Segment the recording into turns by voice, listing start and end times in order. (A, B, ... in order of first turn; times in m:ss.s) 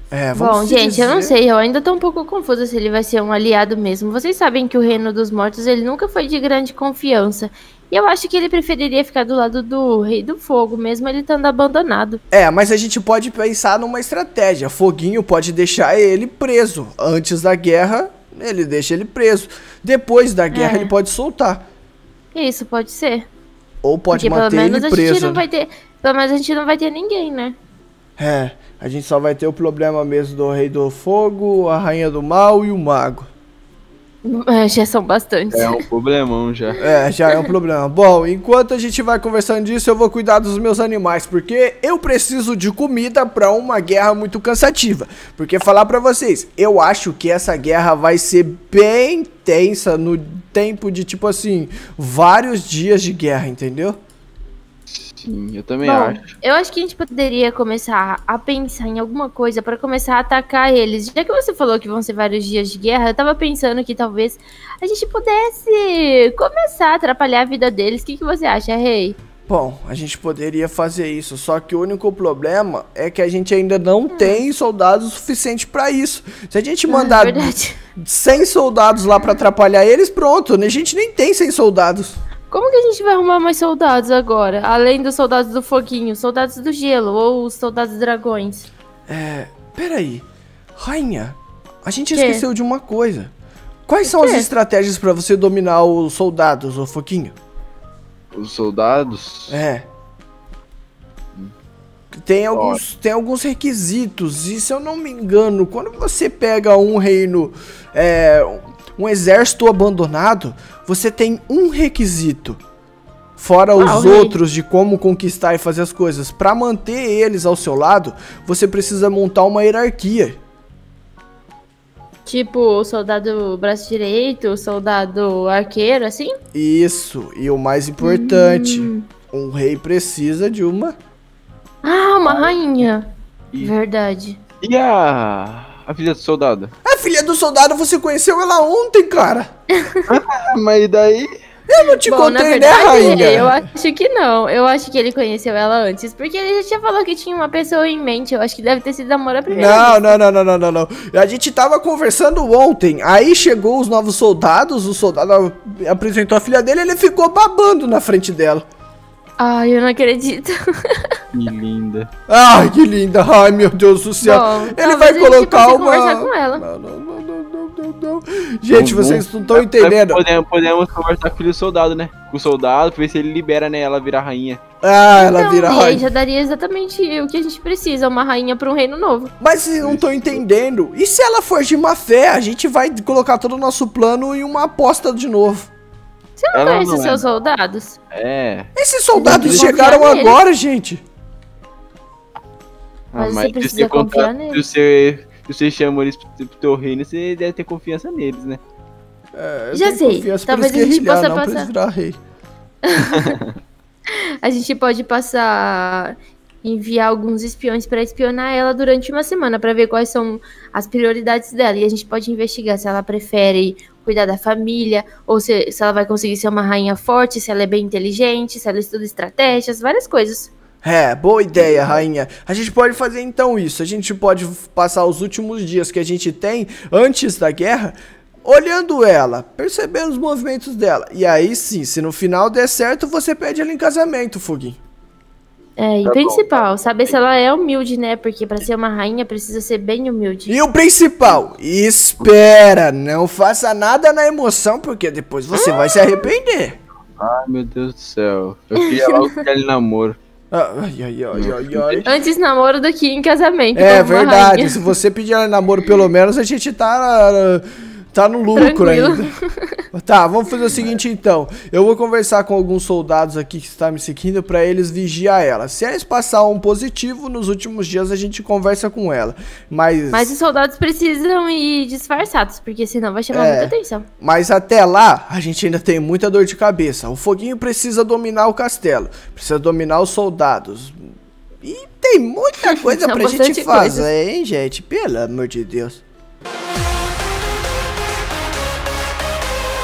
0:00.1-0:01.4 A
0:00.3-0:12.2 B
0:12.3-0:21.7 A
0:20.5-0:20.9 B
0:22.3-0:23.3 B
0:23.8-0:25.4 A
0:24.1-0:27.6 B
0:28.2-0:33.3 A
0:34.2-0:35.8 B
0:35.5-0:36.8 C
0:36.8-0:54.0 A
0:54.9-0:56.3 C
0:55.8-1:09.2 B
1:09.5-1:22.2 A
1:14.1-1:14.4 B
1:16.9-1:17.8 B
1:22.5-1:28.7 B
1:29.1-1:30.2 A
1:30.8-1:33.3 A
1:32.1-1:32.4 B
1:33.9-1:37.4 A
1:34.0-1:34.5 B
1:38.3-1:39.6 C
1:39.5-1:39.9 A
1:42.1-1:52.6 A
1:42.5-1:42.8 C
1:53.4-2:00.4 A
1:53.8-1:54.4 B
2:02.3-2:06.4 B
2:06.5-2:11.0 A
2:08.0-2:09.0 B
2:11.8-2:14.4 B
2:12.2-2:12.6 C
2:14.6-2:16.7 C
2:16.9-2:19.5 A
2:20.1-2:21.3 C
2:21.7-2:23.7 A
2:21.9-2:30.2 B
2:29.5-2:38.6 A
2:39.4-2:41.2 B
2:41.3-2:42.1 C
2:42.3-2:50.2 A
2:44.2-2:46.6 B
2:48.7-2:54.6 C
2:54.8-2:56.0 A
2:55.1-2:59.3 B
2:59.4-3:05.7 A
2:59.8-3:00.4 C
3:06.4-3:08.0 B
3:06.5-3:07.3 C
3:08.1-3:08.7 C
3:08.8-3:11.0 A
3:09.1-3:10.4 B
3:09.2-3:10.0 C
3:13.1-3:18.6 C
3:13.2-3:14.6 B
3:19.3-3:22.2 A
3:19.7-3:21.7 B
3:22.8-3:23.4 B
3:23.0-3:23.6 C
3:24.1-3:40.5 B
3:40.8-3:54.8 A
3:41.5-3:42.0 C
3:55.8-4:00.6 B
3:56.0-3:57.2 C
4:00.5-4:06.8 A
4:07.2-4:10.2 C
4:08.8-4:09.3 B
4:10.5-4:12.1 A
4:11.3-4:12.0 C
4:12.0-4:14.9 B
4:13.8-4:19.3 A
4:18.6-4:19.8 B
4:19.9-4:30.3 A
4:30.1-4:34.1 B
4:33.3-4:41.0 A
4:41.6-4:46.0 A
4:42.6-4:44.1 B